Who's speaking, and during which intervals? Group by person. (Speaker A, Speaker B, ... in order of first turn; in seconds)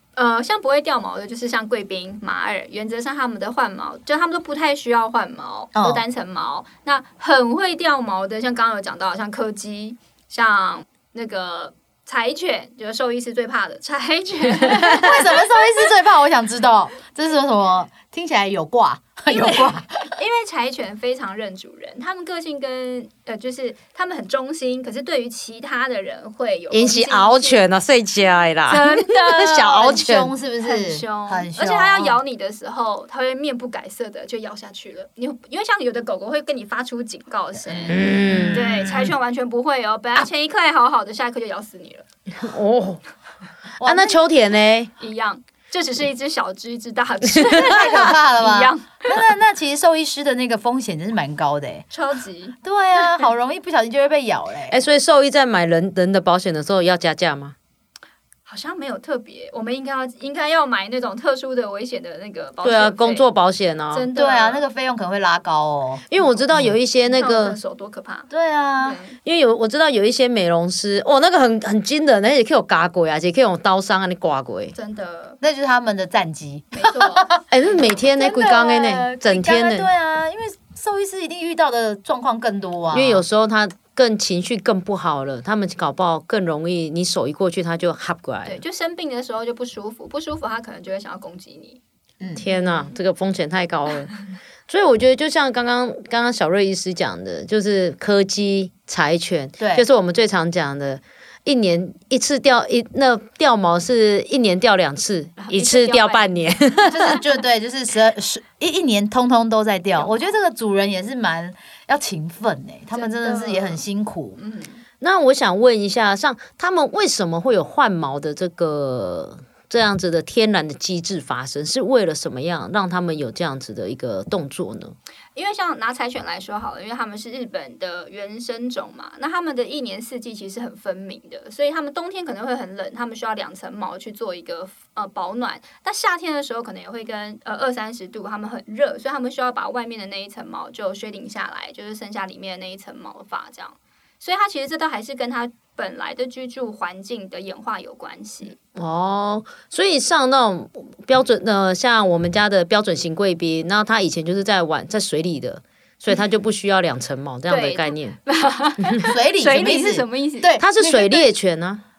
Speaker A: 0.1-15.4, 19.3-27.6, 28.7-30.1, 30.6-42.0, 45.0-49.1, 51.9-52.6, 58.5-63.3, 63.9-64.6, 67.0-69.2, 74.7-75.4, 76.7-77.4, 88.4-91.8, 92.5-92.9, 105.4-106.6, 110.0-110.2, 112.9-113.8, 114.4-114.8, 125.3-148.6, 157.5-160.9
Speaker B: 5.7-6.0, 14.9-20.1, 30.0-32.2, 37.7-38.5, 43.8-44.2, 47.6-51.9, 52.6-54.8, 64.1-66.7, 68.3-69.0, 75.4-77.4, 78.1-83.2, 92.2-92.4, 99.6-99.8, 106.9-114.4, 159.1-161.2
Speaker C: 26.7-30.3, 37.9-39.1, 42.4-43.0, 43.8-44.9, 54.7-57.5, 62.6-64.1, 66.1-67.6, 69.2-74.7, 77.5-79.9, 82.9-88.6, 92.3-94.1, 94.7-107.2, 115.0-124.9, 148.7-158.2, 160.6-161.8